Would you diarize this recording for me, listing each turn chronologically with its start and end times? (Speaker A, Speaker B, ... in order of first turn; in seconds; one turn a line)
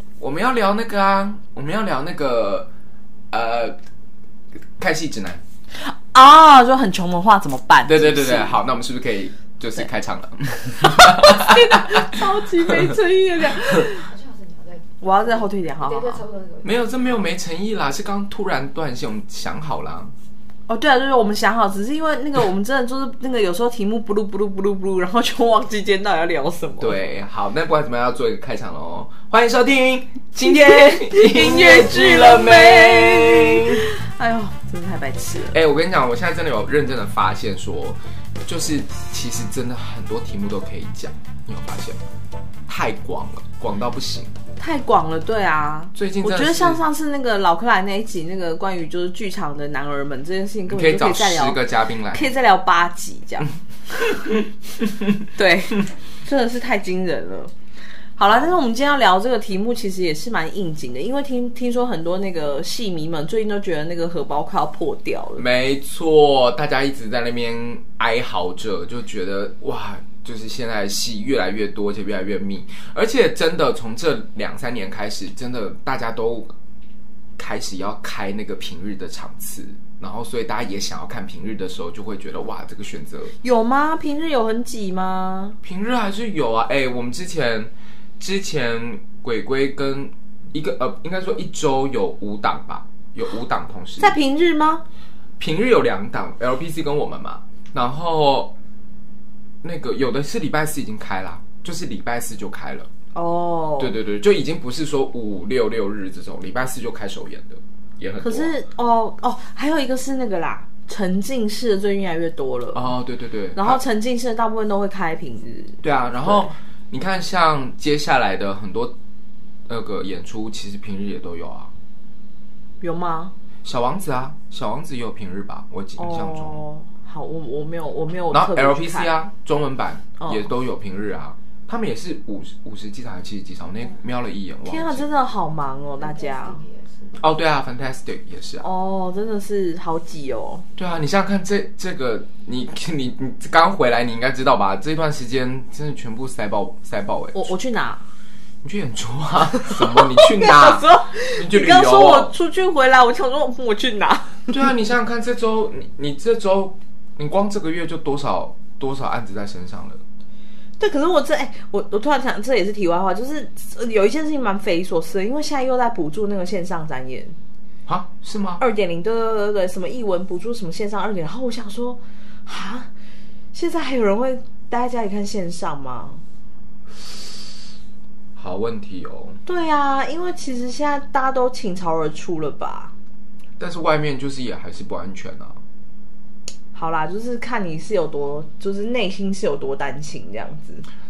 Speaker A: 0.2-2.7
Speaker A: 3.3-3.8
Speaker A: 4.8-5.4
Speaker B: 5.8-8.6
Speaker A: 7.9-12.9
Speaker B: 10.6-14.1
Speaker C: 13.7-16.9
Speaker B: 15.0-16.2
Speaker A: 16.6-20.1
Speaker B: 20.7-27.0
Speaker A: 26.8-33.8
Speaker B: 30.4-35.6
Speaker A: 35.5-42.0
Speaker A: 42.7-44.3
Speaker B: 44.6-51.6
Speaker A: 45.9-46.8
Speaker A: 50.7-52.3
Speaker B: 52.1-54.4
Speaker B: 55.3-57.5
Speaker B: 58.1-65.4
Speaker A: 58.3-58.5
Speaker A: 65.4-76.5
Speaker A: 77.4-83.3
Speaker B: 83.4-85.6
Speaker A: 85.6-94.2
Speaker B: 94.0-94.8
Speaker A: 95.4-98.5
Speaker A: 99.6-102.9
Speaker B: 103.1-104.0
Speaker A: 103.8-108.5
Speaker B: 108.2-113.0
Speaker A: 112.7-113.8
Speaker B: 113.5-116.5
Speaker A: 115.8-119.0
Speaker A: 119.7-121.7
Speaker B: 122.8-123.3
Speaker A: 123.6-126.6
Speaker B: 126.0-129.1
Speaker A: 128.3-135.1
Speaker B: 130.2-130.5
Speaker B: 134.7-136.6
Speaker C: 136.0-137.2
Speaker A: 137.2-138.7
Speaker B: 138.6-140.7
Speaker A: 140.8-147.5
Speaker B: 147.3-148.0
Speaker A: 148.6-152.3
Speaker B: 149.6-154.5
Speaker A: 154.5-160.0
Speaker B: 160.8-167.3
Speaker A: 167.8-168.6
Speaker B: 168.6-172.9
Speaker B: 173.5-176.2
Speaker A: 178.3-179.4
Speaker B: 179.4-182.9
Speaker A: 183.6-185.6
Speaker B: 186.7-190.8